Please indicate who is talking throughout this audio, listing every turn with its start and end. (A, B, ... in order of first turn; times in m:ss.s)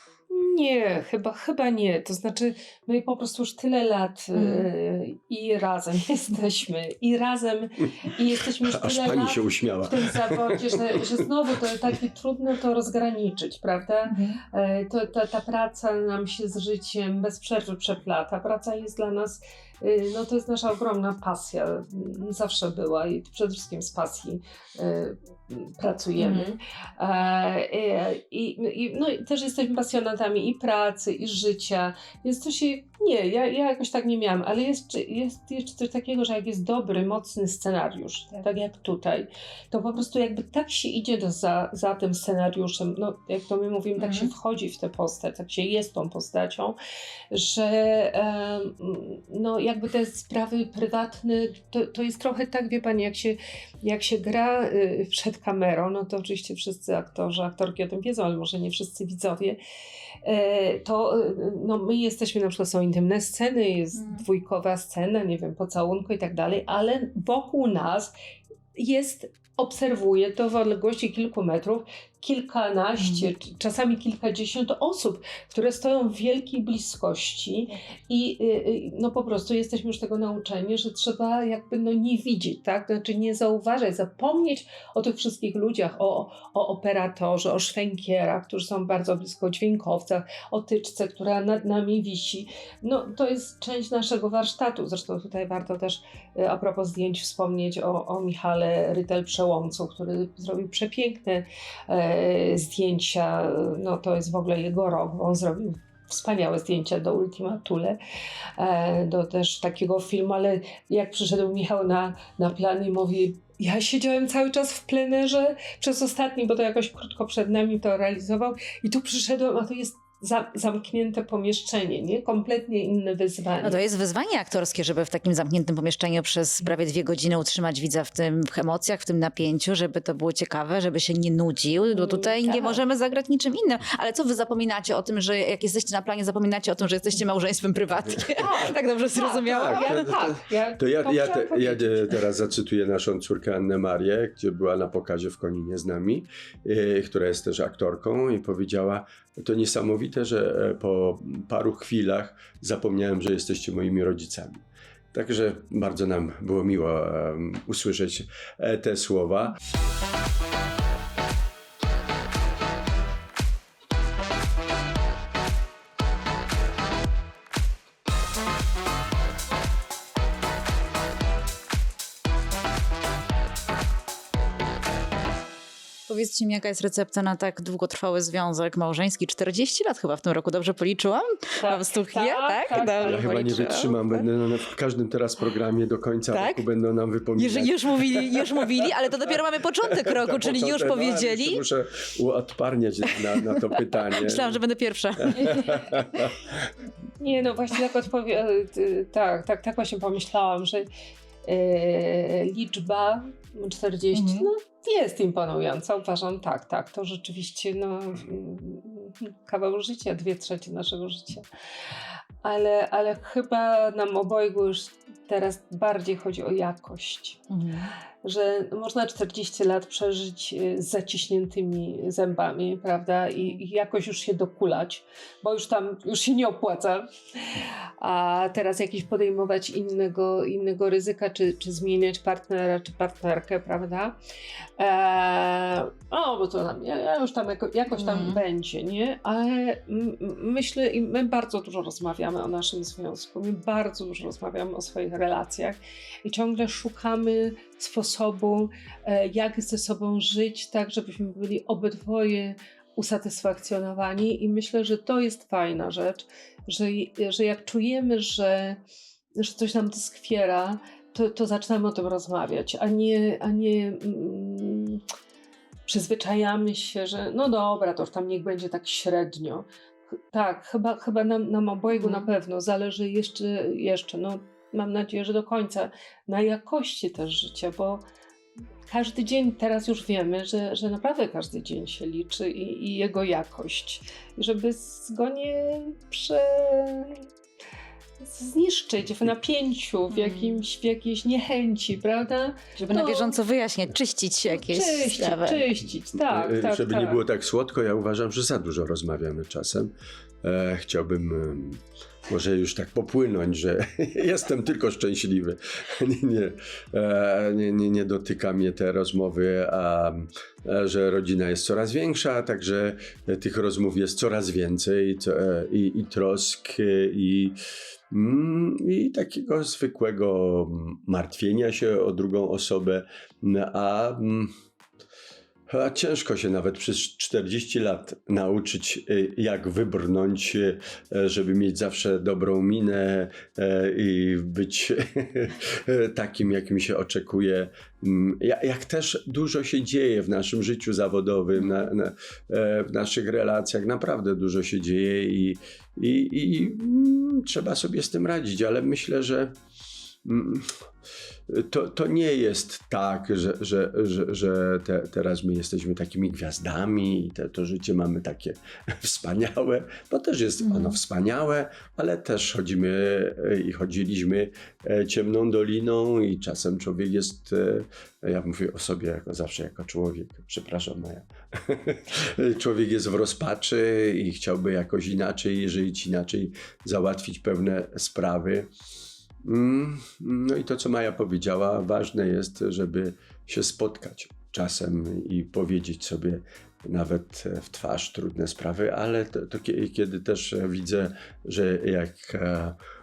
0:00.3-0:46.7 A
0:04.3-0:04.7 B
0:08.6-0:11.1 C
0:14.1-0:14.4 B
0:26.2-0:26.5 B
0:44.0-0:44.3 B
0:47.3-0:59.6 A
1:00.2-1:08.1 A
1:04.0-1:04.2 B
1:08.7-1:48.0 A
1:48.6-2:03.8 A
2:03.6-2:20.0 B
2:11.9-2:12.8 A
2:18.4-2:22.2 A
2:19.5-2:34.6 C
2:35.1-2:39.6 C
2:56.1-3:04.2 B
3:01.6-3:03.7 A
3:02.8-3:08.9 C
3:06.3-3:06.6 B
3:07.4-3:11.6 B
3:09.9-3:14.6 C
3:13.6-3:15.8 B
3:15.3-3:16.5 C
3:17.2-3:20.9 A
3:21.4-3:31.4 A
3:24.1-3:24.5 B
3:32.4-3:37.4 A
3:37.5-3:37.9 B
3:38.2-3:54.2 A
3:54.8-4:18.8 A
3:57.9-3:58.4 B
4:19.4-4:25.0 A
4:25.9-4:38.0 A
4:31.9-4:32.3 B
4:38.9-4:47.2 A
4:48.2-4:53.4 A
4:50.1-4:50.6 B
4:52.8-4:55.6 B
4:54.5-4:57.2 A
4:56.1-4:59.9 C
5:00.4-5:17.6 C
5:18.1-5:24.5 C
5:25.7-5:49.5 C
5:41.6-5:41.9 B
5:50.2-5:50.7 C
5:51.5-6:18.7 C
6:00.6-6:01.0 B
6:19.4-6:32.8 C